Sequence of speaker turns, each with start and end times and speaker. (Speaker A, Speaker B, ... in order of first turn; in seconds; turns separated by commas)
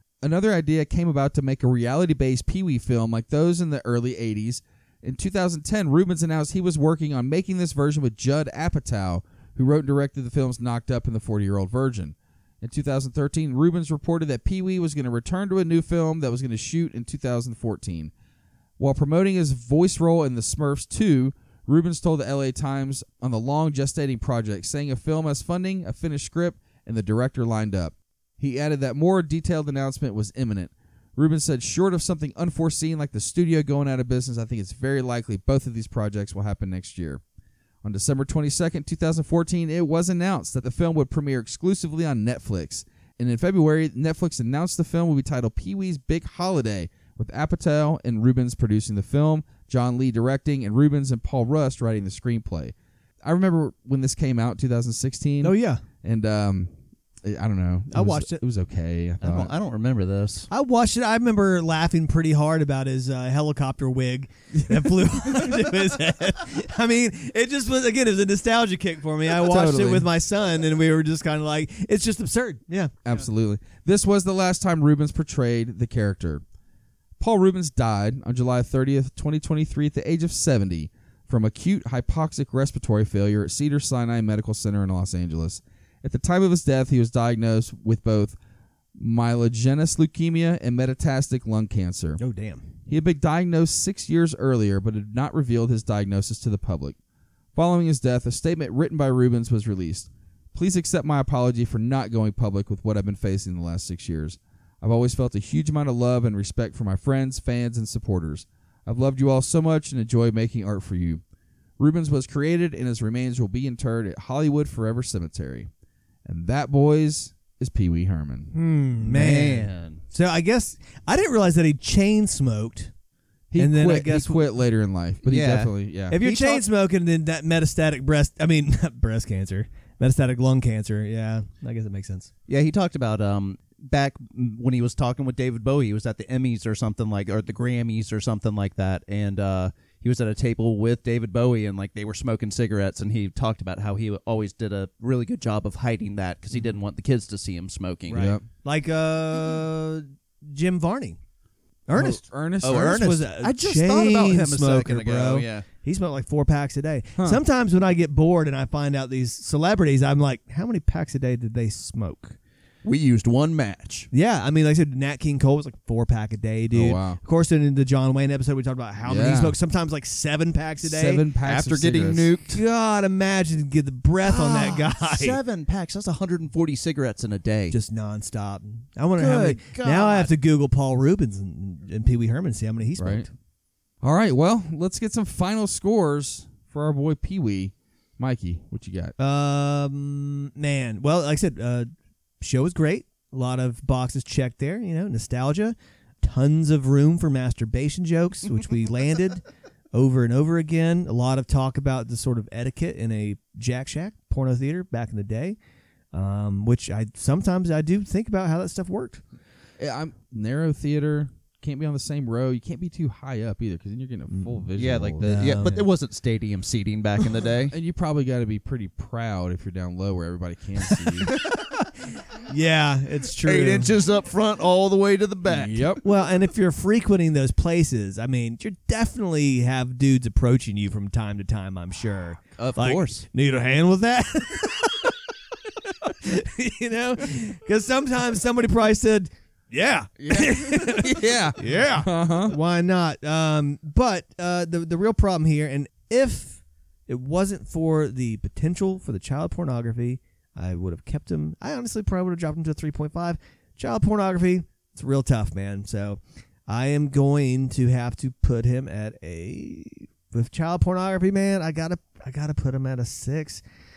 Speaker A: 0.2-18.1, Speaker A: 18.8-37.2, Speaker A: 37.8-56.7, Speaker B: 55.4-55.8, Speaker A: 57.2-59.5, Speaker B: 57.9-58.4, Speaker C: 59.2-60.5, Speaker B: 60.5-72.9, Speaker A: 69.4-70.1, Speaker A: 73.0-76.4, Speaker A: 77.2-88.4, Speaker A: 89.0-92.2, Speaker B: 92.2-92.6, Speaker A: 92.9-97.0, Speaker A: 97.5-111.2, Speaker A: 111.8-115.7, Speaker A: 116.2-119.6, Speaker B: 118.5-122.9, Speaker C: 119.1-120.0, Speaker A: 123.5-126.2, Speaker B: 123.6-124.4, Speaker C: 125.2-126.6, Speaker B: 126.1-132.3, Speaker C: 132.5-148.3, Speaker B: 148.1-151.2, Speaker A: 148.1-148.4, Speaker B: 151.9-162.3, Speaker A: 151.9-153.2, Speaker C: 152.6-155.6, Speaker A: 157.2-157.4, Speaker C: 162.8-164.1, Speaker B: 164.1-171.2, Speaker A: 166.7-167.2, Speaker A: 169.1-169.5, Speaker A: 170.8-172.3, Speaker C: 171.4-172.6, Speaker B: 172.5-175.4, Speaker C: 174.2-177.8, Speaker B: 177.7-183.3, Speaker C: 179.2-180.3, Speaker A: 183.0-183.2, Speaker A: 184.0-189.1, Speaker B: 189.2-191.9, Speaker B: 192.4-205.6, Speaker B: 206.1-209.2, Speaker A: 209.8-215.7, Speaker B: 214.3-214.7, Speaker C: 214.8-217.7, Speaker B: 215.2-215.9, Speaker A: 217.7-221.3, Speaker B: 222.5-223.9, Speaker C: 223.4-226.0, Speaker A: 225.4-226.0, Speaker B: 226.0-235.2, Speaker C: 232.6-233.2, Speaker B: 236.0-263.6, Speaker A: 240.2-242.5